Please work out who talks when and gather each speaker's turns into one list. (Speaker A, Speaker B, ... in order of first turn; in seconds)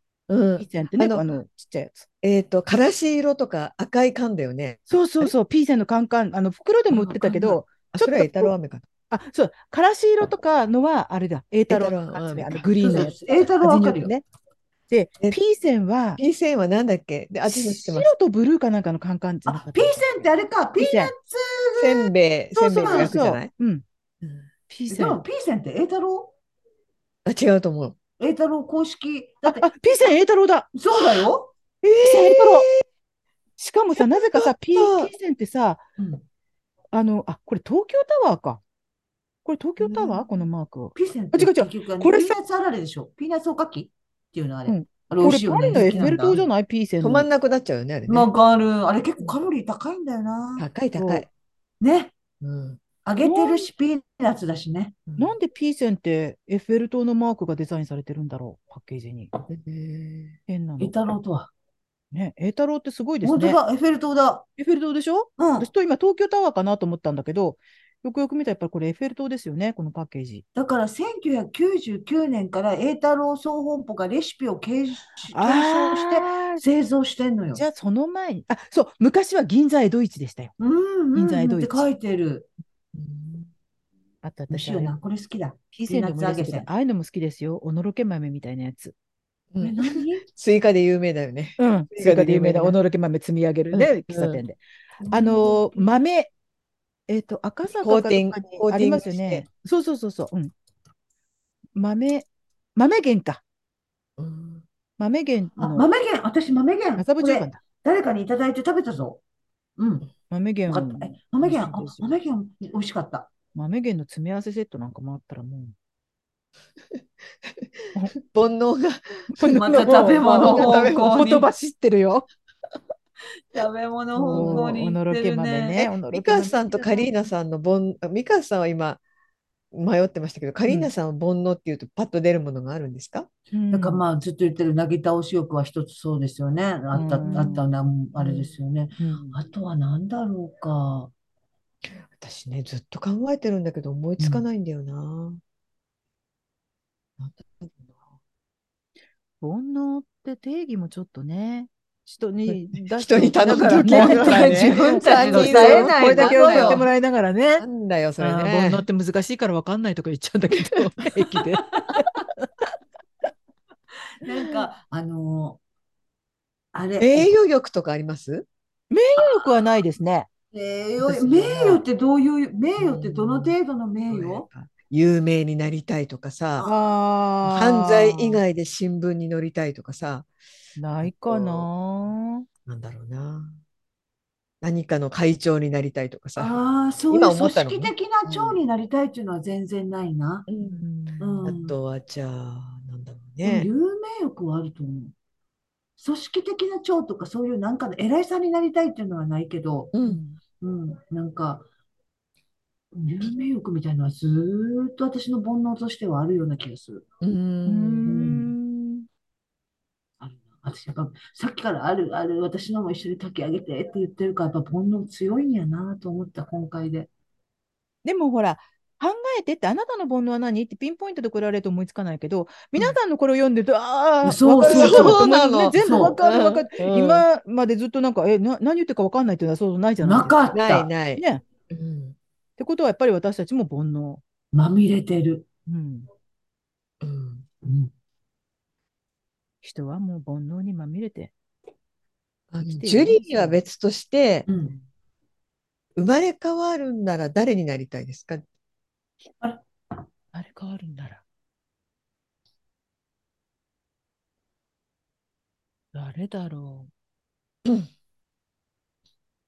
Speaker A: 0.3-1.2, 2.2-5.3, 6.9-8.8, 11.7-13.2, 16.2-18.1, 21.8-23.5, 27.2-28.0, 31.8-32.8, 34.0-35.1, 47.0-48.3, 50.6-51.3, 52.4-52.8, 55.1-55.4, 59.5-60.4, 82.9-83.5, 89.5-92.8, 93.7-94.4, 97.8-99.5, 104.2-104.7, 116.9-117.7, 118.2-119.3, 119.9-121.3, 124.2-124.7, 126.1-129.0, 129.7-133.3, 137.2-137.6, 138.2-138.5, 142.1-145.4, 147.2-147.8, 152.5-156.9, 157.6-158.8, 167.0-168.5, 172.8-173.6, 174.1-176.7, 177.4-180.3, 181.0-181.7, 182.7-183.6, 184.6-186.6, 187.1-188.6, 190.5-190.8, 191.4-193.7, 199.9-200.2, 207.2-208.1, 224.7-227.2, 230.5-232.2, 237.0-237.4, 242.5-244.5, 246.0-248.4
Speaker B: 0.6-2.1, 4.9-8.5, 9.1-14.2, 14.9-16.2, 17.5-20.2, 20.8-21.1, 22.6-23.8, 24.7-25.2, 29.4-30.7, 32.0-32.7, 33.6-35.8, 36.9-38.6, 39.5-42.4, 44.7-47.3, 51.0-51.2, 53.2-53.7, 55.2-59.3, 60.5-61.0, 62.1-63.6, 64.6-70.4, 75.3-76.6, 77.5-80.5, 81.2-81.9, 84.2-85.0, 85.7-88.9, 91.6-94.6, 95.1-96.3, 97.1-100.5, 101.8-103.4, 105.0-105.9, 107.0-107.6, 110.3-112.1, 113.5-115.7, 119.3-122.3, 124.2-127.1, 133.5-134.0, 136.9-137.7, 139.0-139.4, 149.4-157.7, 158.2-162.5, 168.9-170.3, 171.0-171.8, 176.6-178.4, 180.8-182.4, 190.7-191.5, 200.0-200.4, 207.7-209.1, 218.0-230.4, 231.2-231.4, 232.6-234.2, 235.7-236.1, 239.6-241.3, 242.7-243.6, 250.3-251.2, 255.9-256.9
Speaker C: 12.8-14.1, 19.5-22.1, 22.6-23.2, 24.9-26.3, 28.2-29.7, 30.7-31.5, 36.0-36.2, 40.0-40.2, 41.0-46.4, 48.1-50.7, 51.8-52.1, 53.0-55.0, 60.8-61.5, 63.2-64.5, 65.4-65.7, 70.5-77.6, 80.6-82.5, 84.5-86.7, 89.6-90.2, 95.0-95.9, 105.6-109.2, 109.8-110.1, 110.7-113.3, 119.4-121.5, 123.5-125.9, 133.7-141.1, 144.2-144.4, 153.9-156.9, 161.7-162.0, 164.2-165.6, 166.7-167.3, 169.2-169.5, 170.5-174.5, 176.6-176.8, 186.4-190.5, 191.2-191.8, 193.4-195.1, 196.0-199.9, 200.6-201.7, 202.9-207.1, 208.1-208.5, 210.2-217.1, 224.2-225.2, 225.8-226.2, 230.0-230.9, 234.5-235.5, 237.6-237.9, 244.5-244.8, 249.4-250.0